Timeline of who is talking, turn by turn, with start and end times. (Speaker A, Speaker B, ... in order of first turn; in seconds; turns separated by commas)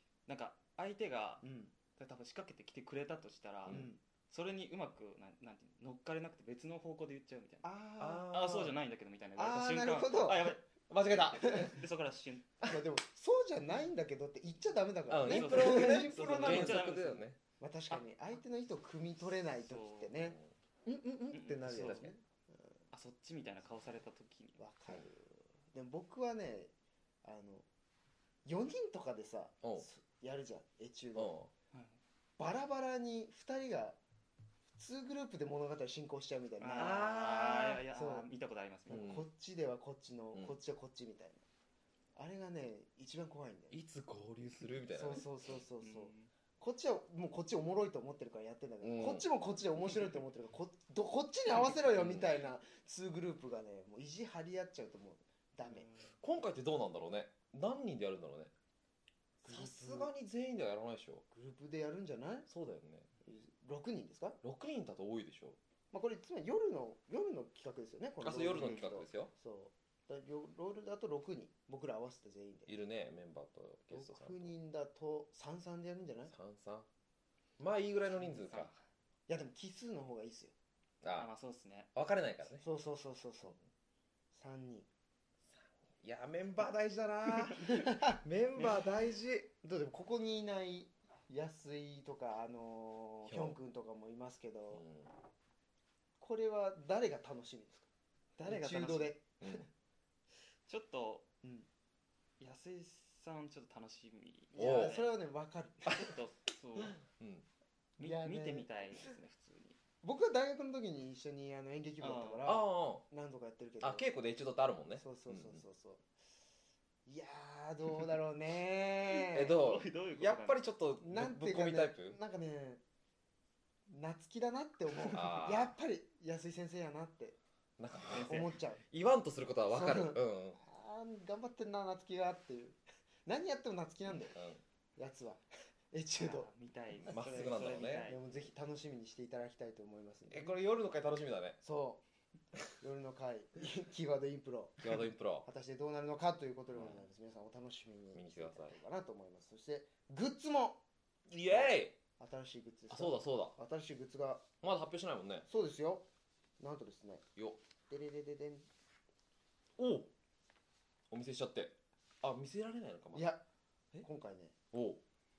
Speaker A: 0.3-7.7, Speaker B: 1.4-1.7, Speaker B: 3.7-4.0, Speaker B: 7.6-8.4, Speaker C: 8.0-8.7, Speaker A: 8.3-12.5, Speaker B: 9.4-10.6, Speaker C: 10.9-11.8, Speaker B: 11.4-11.7, Speaker B: 12.6-16.9, Speaker C: 15.1-17.4, Speaker A: 15.2-17.2, Speaker B: 17.6-22.2, Speaker A: 19.4-20.2, Speaker C: 20.2-20.5, Speaker A: 21.3-22.1, Speaker A: 22.9-24.6, Speaker B: 24.6-26.7, Speaker B: 27.2-27.6, Speaker B: 28.4-31.4, Speaker C: 31.1-31.5, Speaker A: 31.7-32.0, Speaker B: 32.4-34.0, Speaker B: 34.7-37.1, Speaker A: 36.6-39.1, Speaker C: 36.8-37.8, Speaker B: 37.9-38.3, Speaker B: 38.9-41.4, Speaker C: 38.9-39.2, Speaker B: 42.1-43.8, Speaker C: 43.7-45.3, Speaker B: 44.9-55.9, Speaker A: 45.8-46.3, Speaker C: 48.8-49.2, Speaker C: 51.9-52.3, Speaker C: 56.2-58.5, Speaker C: 59.4-61.2, Speaker B: 59.4-60.1, Speaker B: 61.3-62.5, Speaker C: 62.5-63.1, Speaker B: 63.2-64.4, Speaker C: 64.4-65.6, Speaker B: 65.9-72.7, Speaker C: 68.2-69.3, Speaker A: 68.5-68.8, Speaker C: 72.7-74.5, Speaker B: 73.9-76.3, Speaker C: 76.3-76.9, Speaker C: 77.6-78.7, Speaker A: 78.2-78.8, Speaker B: 79.3-80.5, Speaker C: 81.0-81.3, Speaker A: 81.1-81.9, Speaker C: 81.9-82.6, Speaker B: 82.6-83.6, Speaker B: 84.3-84.9, Speaker C: 85.5-89.5, Speaker B: 87.4-89.0, Speaker B: 89.6-94.8, Speaker C: 93.2-93.6, Speaker C: 94.7-95.1, Speaker B: 96.2-97.9, Speaker A: 98.4-99.1, Speaker B: 98.4-99.6, Speaker C: 99.4-99.7, Speaker A: 100.7-101.2, Speaker B: 101.4-101.7, Speaker A: 102.4-105.1, Speaker B: 104.5-106.1, Speaker C: 104.5-105.0, Speaker A: 105.9-107.0, Speaker C: 107.0-107.5, Speaker B: 108.0-108.7, Speaker A: 108.0-109.8, Speaker B: 110.0-114.0, Speaker A: 112.0-112.5, Speaker C: 112.4-113.0, Speaker C: 113.8-115.6, Speaker B: 115.0-116.0, Speaker B: 117.0-119.5, Speaker C: 119.3-122.2, Speaker A: 119.4-120.6, Speaker B: 121.0-122.8, Speaker B: 123.9-127.4, Speaker C: 125.1-125.8, Speaker C: 127.8-130.6, Speaker A: 128.1-128.5, Speaker B: 128.2-128.8, Speaker B: 129.7-134.4, Speaker C: 134.3-134.6, Speaker B: 135.0-136.5, Speaker A: 136.2-138.3, Speaker C: 137.1-138.1, Speaker B: 138.0-140.5, Speaker C: 140.3-141.6, Speaker B: 141.6-142.0, Speaker B: 142.8-150.8, Speaker C: 144.8-145.5, Speaker C: 146.7-147.0, Speaker C: 148.1-148.8, Speaker C: 151.3-152.0, Speaker B: 151.4-154.4, Speaker C: 152.9-153.6, Speaker C: 154.6-155.5, Speaker B: 155.5-156.0, Speaker B: 156.6-157.2, Speaker B: 157.9-158.7, Speaker C: 159.8-160.1, Speaker C: 161.1-163.3, Speaker B: 163.1-163.4, Speaker B: 164.0-164.5, Speaker C: 164.7-165.0